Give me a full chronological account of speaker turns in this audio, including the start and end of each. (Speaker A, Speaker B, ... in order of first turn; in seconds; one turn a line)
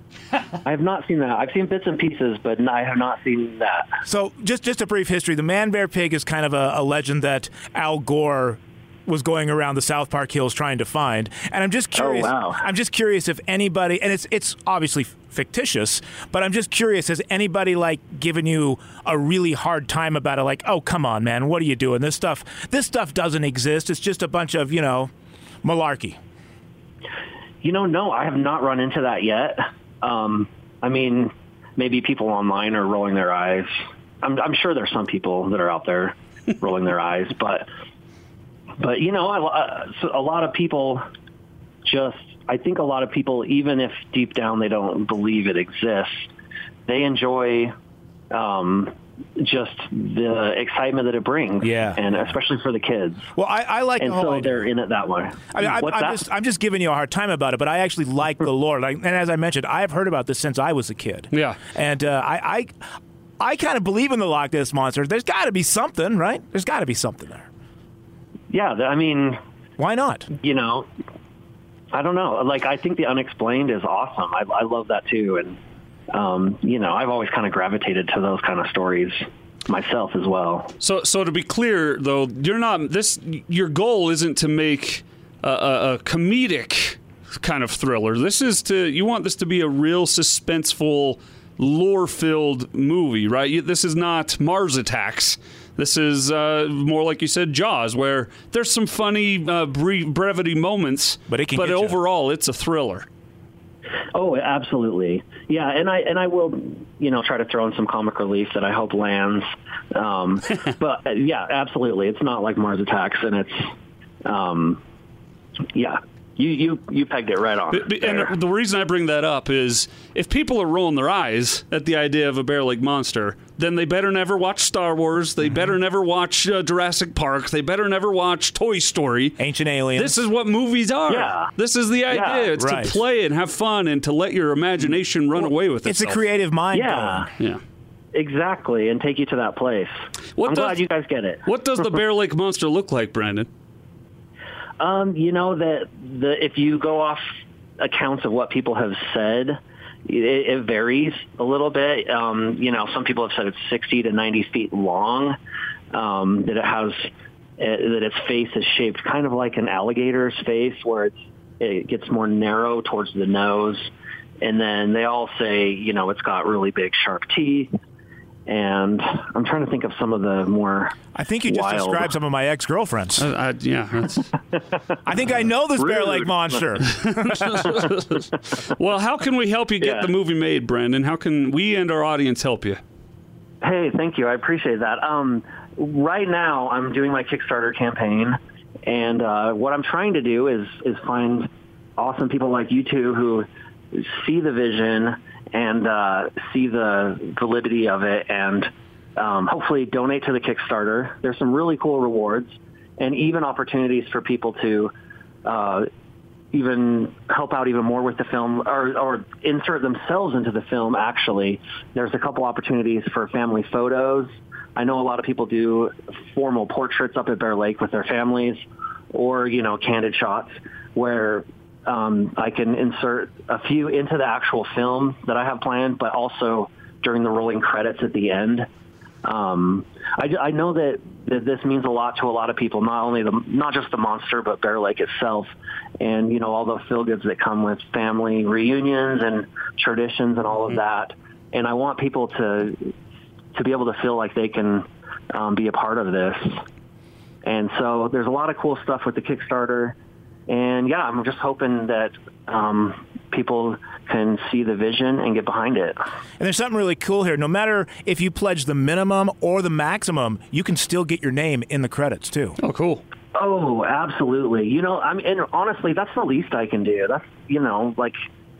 Speaker A: 0.6-4.0
Speaker B: 4.0-25.1
Speaker A: 11.9-12.6
Speaker B: 25.6-26.2
Speaker A: 27.6-37.7
Speaker A: 38.8-41.0
Speaker A: 41.9-46.3
Speaker A: 46.9-47.7
Speaker A: 48.3-53.3
Speaker B: 51.6-52.0
Speaker B: 53.4-54.6
Speaker A: 54.0-56.2
Speaker B: 55.5-62.7
Speaker C: 61.3-61.6
Speaker B: 63.4-67.5
Speaker A: 68.5-69.4
Speaker B: 69.8-70.3
Speaker A: 70.4-70.9
Speaker A: 71.9-75.6
Speaker A: 76.1-80.7
Speaker C: 80.8-103.0
Speaker B: 101.3-102.0
Speaker A: 104.1-113.7
Speaker A: 114.2-114.8
Speaker A: 115.7-118.3
Speaker C: 117.7-129.4
Speaker B: 129.4-130.2
Speaker C: 129.9-136.2
Speaker A: 131.1-131.5
Speaker A: 132.1-132.5
Speaker B: 132.6-133.0
Speaker B: 135.8-137.3
Speaker A: 136.7-137.3
Speaker A: 138.1-139.9
Speaker C: 140.4-140.8
Speaker A: 140.4-141.4
Speaker C: 141.4-143.5
Speaker A: 144.8-147.2
Speaker A: 147.8-155.4
Speaker A: 155.9-167.7
Speaker A: 168.5-172.1
Speaker B: 171.1-173.2
Speaker C: 173.2-174.3
Speaker B: 175.1-177.6
Speaker A: 175.8-176.7
Speaker C: 176.8-182.8
Speaker A: 179.8-180.1
Speaker A: 183.6-204.9
Speaker A: 205.4-205.9
Speaker A: 206.5-228.7
Speaker A: 229.2-242.9
Speaker A: 243.5-246.6
Speaker A: 247.4-249.9
Speaker A: 250.5-256.0
Speaker B: 256.4-262.6
Speaker C: 262.6-263.0
Speaker A: 263.3-268.2